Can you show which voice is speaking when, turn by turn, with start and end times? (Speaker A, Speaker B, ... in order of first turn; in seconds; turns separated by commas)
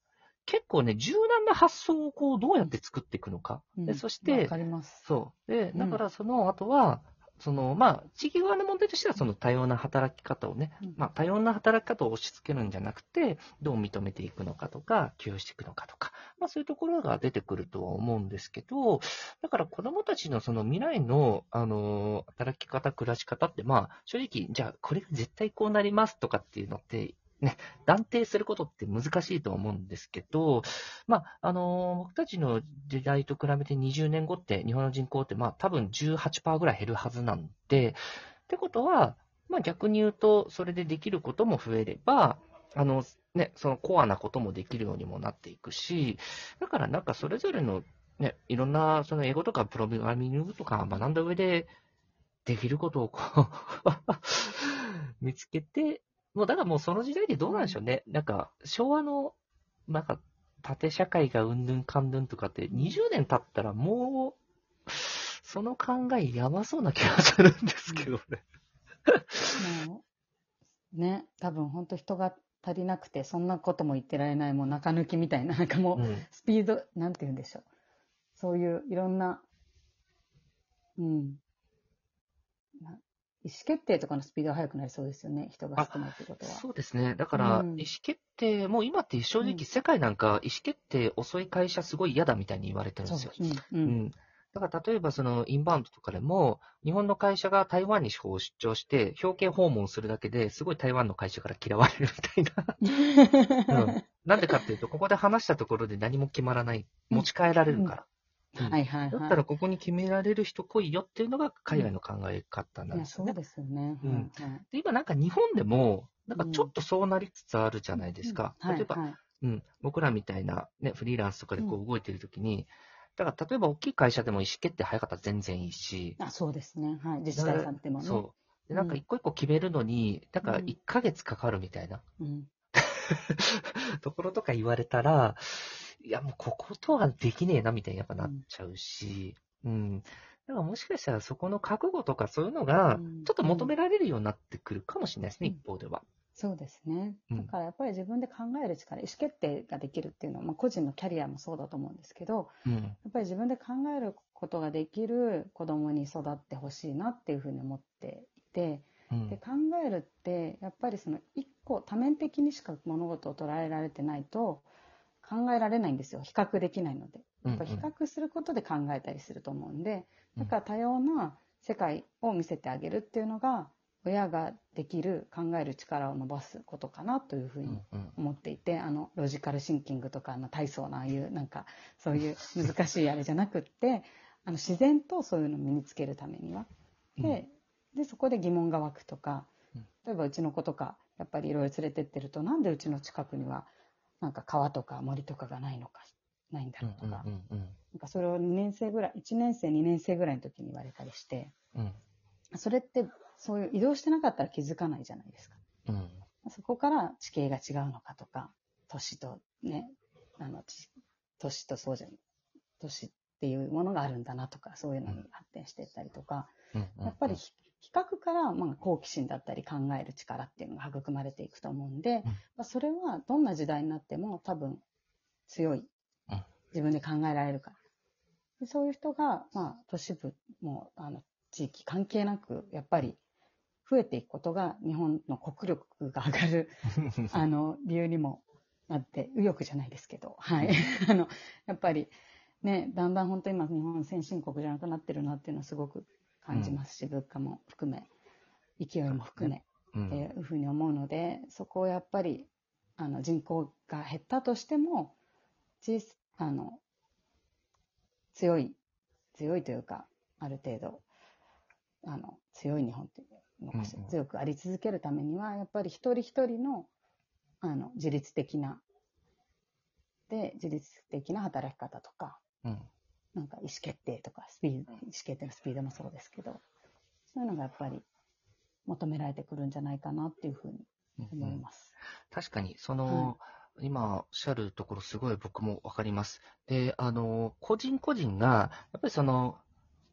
Speaker A: 0.5-4.5, Speaker B: 3.8-5.1, Speaker A: 5.0-51.7, Speaker B: 5.7-6.0, Speaker A: 52.5-59.4, Speaker B: 57.4-57.8, Speaker A: 59.9-64.4, Speaker B: 62.7-63.0, Speaker A: 64.9-68.4, Speaker A: 69.1-69.6, Speaker B: 69.5-70.0, Speaker B: 70.9-77.7, Speaker A: 76.0-76.3, Speaker B: 78.4-79.5, Speaker B: 81.0-81.4, Speaker B: 82.8-86.6, Speaker A: 85.8-102.9, Speaker B: 87.3-87.9, Speaker B: 93.1-94.0, Speaker B: 102.8-104.6, Speaker A: 103.7-108.1, Speaker B: 107.1-107.9, Speaker B: 108.5-109.4, Speaker A: 108.6-113.4, Speaker B: 112.9-114.7, Speaker A: 114.0-126.2, Speaker B: 116.4-116.7, Speaker B: 118.0-119.2, Speaker B: 126.2-129.0, Speaker A: 127.3-132.0, Speaker B: 130.4-130.7, Speaker B: 132.2-132.5, Speaker A: 132.8-146.0, Speaker B: 142.9-143.7, Speaker B: 146.4-164.7, Speaker A: 152.7-153.0, Speaker A: 159.1-159.4, Speaker B: 165.2-189.5, Speaker A: 167.4-167.9, Speaker A: 177.7-178.2, Speaker B: 190.0-193.7, Speaker B: 194.2-197.3, Speaker A: 196.8-197.8, Speaker B: 197.9-201.5, Speaker B: 202.5-205.6, Speaker A: 205.9-206.2, Speaker B: 206.4-212.2, Speaker B: 212.8-224.8, Speaker A: 216.7-217.4, Speaker B: 225.5-225.9, Speaker B: 226.7-227.8, Speaker B: 228.6-233.2, Speaker B: 233.9-248.1, Speaker A: 246.5-246.8, Speaker B: 248.8-255.2, Speaker A: 249.1-250.2, Speaker B: 255.8-256.8, Speaker B: 258.3-258.8, Speaker B: 259.4-261.1, Speaker B: 262.0-266.9, Speaker A: 263.7-264.1, Speaker B: 267.6-268.8, Speaker B: 270.3-272.4, Speaker B: 273.3-276.6, Speaker B: 277.3-278.1, Speaker B: 278.9-281.9, Speaker A: 281.2-281.6, Speaker A: 282.3-289.6, Speaker B: 283.1-283.4